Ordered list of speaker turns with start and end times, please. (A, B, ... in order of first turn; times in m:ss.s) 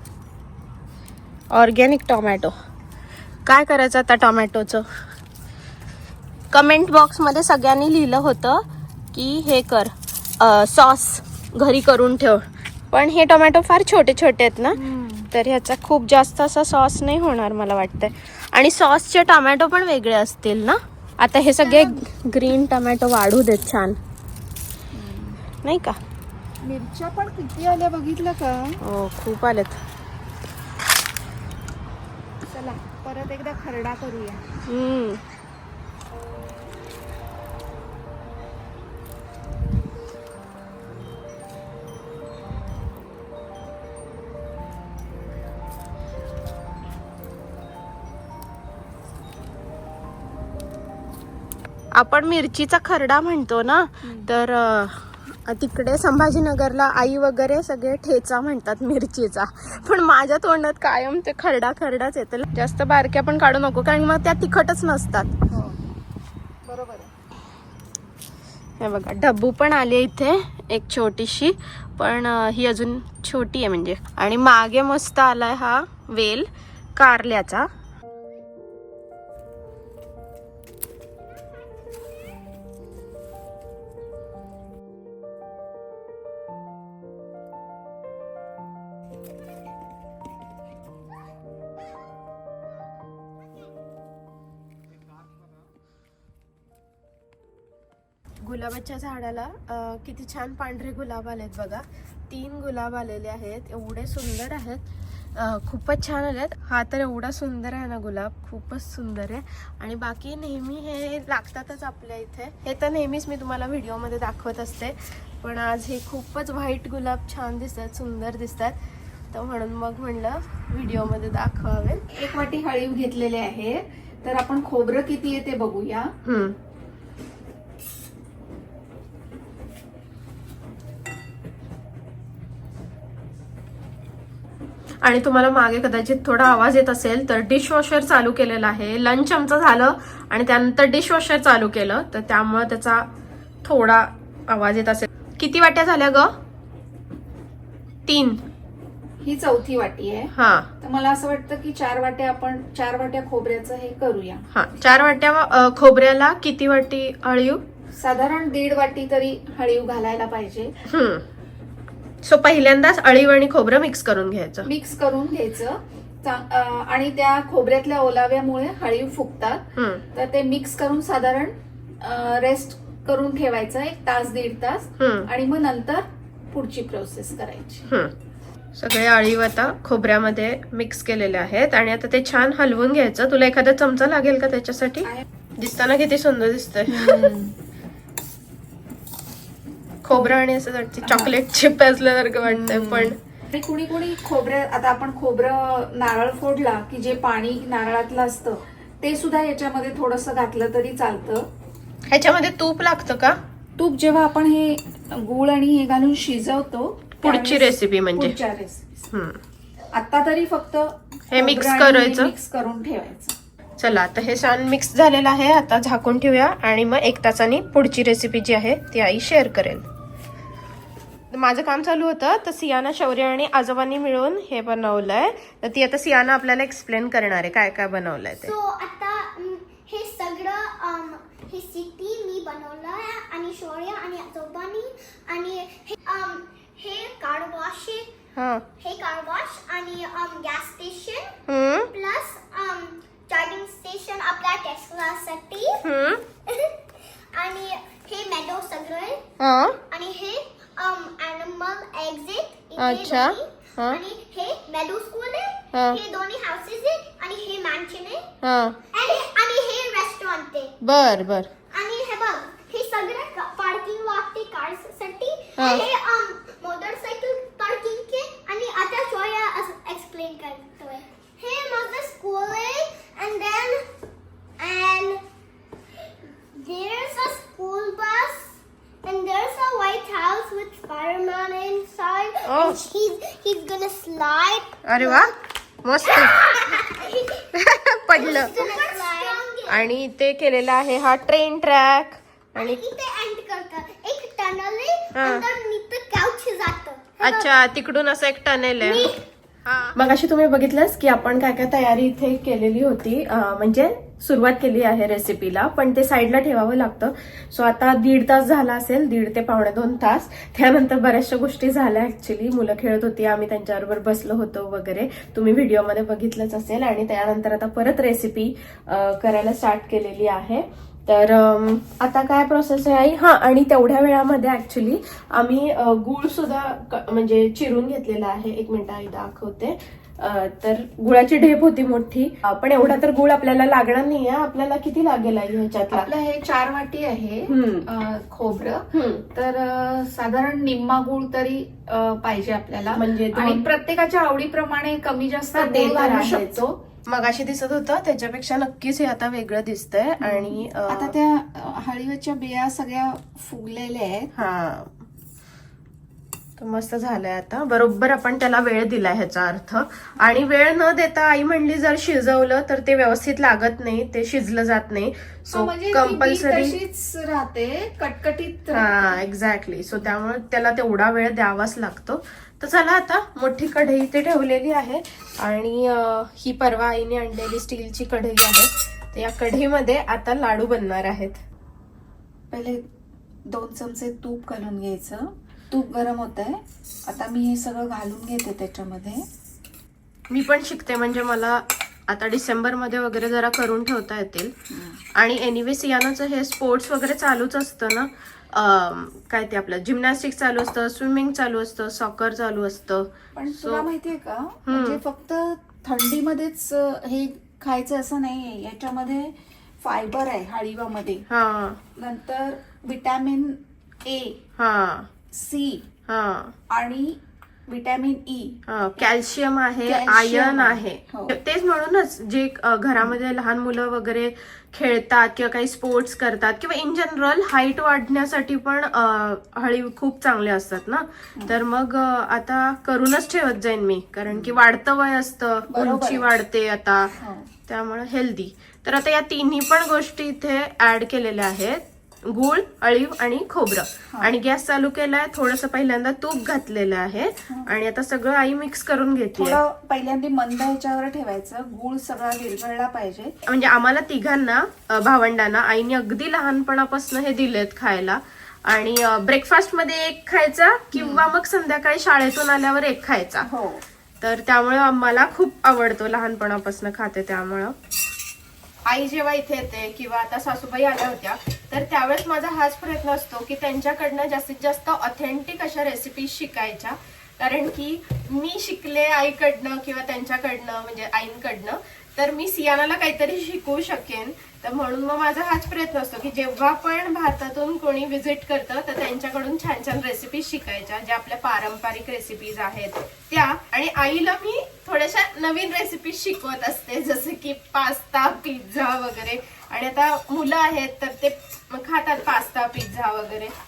0:01.5-0:02.6 A
0:03.4-0:04.9 A
0:06.5-0:14.8 A
0:14.7-0:15.3 B
0:15.3-0:24.0 A
0:21.7-0:21.9 B
0:24.9-0:25.4 B
0:25.6-0:26.0 A
0:26.6-0:28.8 B
0:28.8-0:29.8 A
0:32.5-0:34.5 B
0:34.7-0:35.2 A
0:52.0-1:05.3 A
0:54.0-0:54.3 B
1:05.5-1:05.9 B
1:06.6-1:07.1 B
1:08.8-1:17.7 A
1:38.4-1:44.8 A
1:45.4-1:58.8 A
1:59.3-2:02.1 A
2:02.1-2:06.1 B
2:06.2-2:06.6 A
2:15.0-2:23.1 A
2:23.6-2:26.3 A
2:28.1-2:28.4 A
2:29.2-2:34.5 B
2:30.4-2:30.7 A
2:34.5-2:37.6 A
2:38.0-2:40.7 B
2:40.9-2:41.2 A
2:42.2-2:44.7 A
2:44.6-2:49.6 B
2:49.8-2:50.0 A
2:50.1-2:57.9 B
2:55.0-2:55.3 A
2:58.8-3:07.3 A
3:06.9-3:07.5 B
3:10.0-3:13.2 A
3:11.0-3:11.3 B
3:12.4-3:21.5 B
3:22.1-3:23.4 A
3:23.8-3:29.0 B
3:27.2-3:28.4 A
3:29.1-3:29.4 A
3:29.9-3:33.4 B
3:31.3-3:32.3 A
3:33.8-3:39.8 A
3:41.3-3:48.5 A
3:48.4-3:58.1 C
3:58.4-3:58.6 A
3:58.8-4:01.4 C
4:01.5-4:01.9 A
4:01.9-4:05.8 C
4:05.8-4:06.2 A
4:06.5-4:09.2 C
4:09.4-4:09.8 A
4:09.9-4:18.3 C
4:12.8-4:14.0 A
4:15.7-4:16.0 A
4:18.4-4:18.8 A
4:18.9-4:20.8 C
4:20.8-4:21.5 A
4:21.7-4:33.8 C
4:25.6-4:25.9 A
4:34.6-4:35.2 C
4:36.5-4:45.4 C
4:42.4-4:42.8 A
4:44.8-4:45.3 A
4:45.8-4:46.8 A
4:46.0-4:47.5 C
4:47.5-4:48.8 A
4:48.1-4:49.9 C
4:49.7-4:52.8 A
4:52.6-4:57.6 C
4:55.1-4:55.5 A
4:57.2-4:59.1 A
4:58.8-4:59.2 C
4:59.7-5:36.1 A
5:35.9-5:46.8 B
5:37.5-5:37.9 A
5:38.9-5:39.2 A
5:42.9-5:43.6 A
5:45.5-5:51.1 A
5:50.2-5:54.3 B
5:54.4-5:55.0 A
5:56.6-6:06.8 A
6:05.5-6:09.2 B
6:08.7-6:21.4 A
6:22.5-6:22.8 B
6:23.5-6:29.3 B
6:30.3-6:34.5 A
6:34.7-6:35.0 B
6:35.2-6:43.9 A
6:43.4-6:51.2 B
6:44.7-6:45.0 A
6:51.3-6:51.8 A
6:52.0-6:54.4 B
6:54.6-6:55.1 A
6:55.3-6:55.9 B
6:56.1-6:56.6 A
6:56.7-6:59.0 B
6:58.7-7:17.1 A
6:59.9-7:01.3 B
7:14.3-7:14.6 B
7:15.7-7:16.3 B
7:17.2-7:17.5 B
7:17.7-7:29.6 A
7:29.4-7:33.3 B
7:33.5-7:43.5 A
7:40.9-7:41.3 B
7:43.4-7:43.8 B
7:44.2-7:47.8 A
7:48.8-8:23.5 A